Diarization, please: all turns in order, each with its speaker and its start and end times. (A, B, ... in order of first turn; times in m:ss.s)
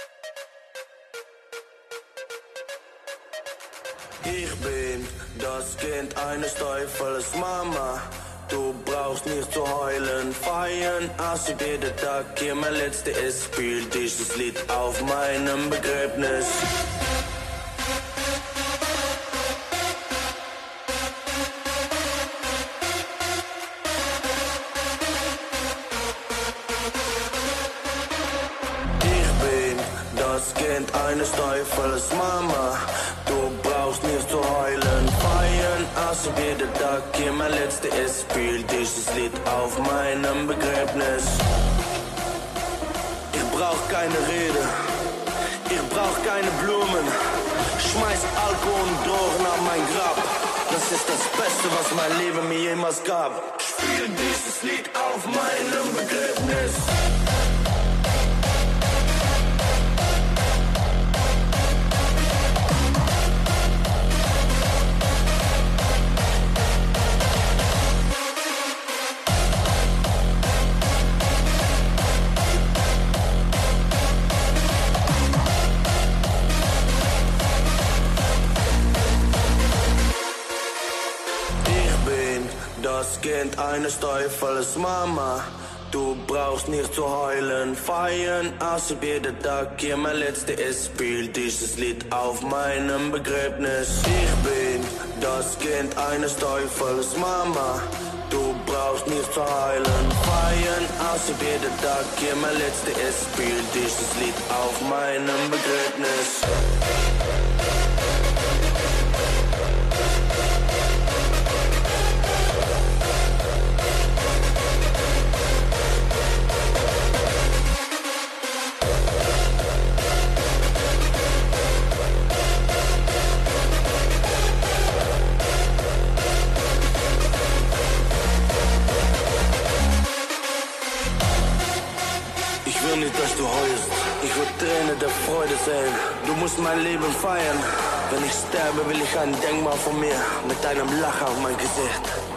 0:04.2-0:16.7 A
0:29.0-0:41.4 A
0:43.3-0:44.7 A
0:45.7-0:47.1 A
0:47.8-0:57.0 A
1:21.6-1:46.5 A
2:12.6-2:22.1 A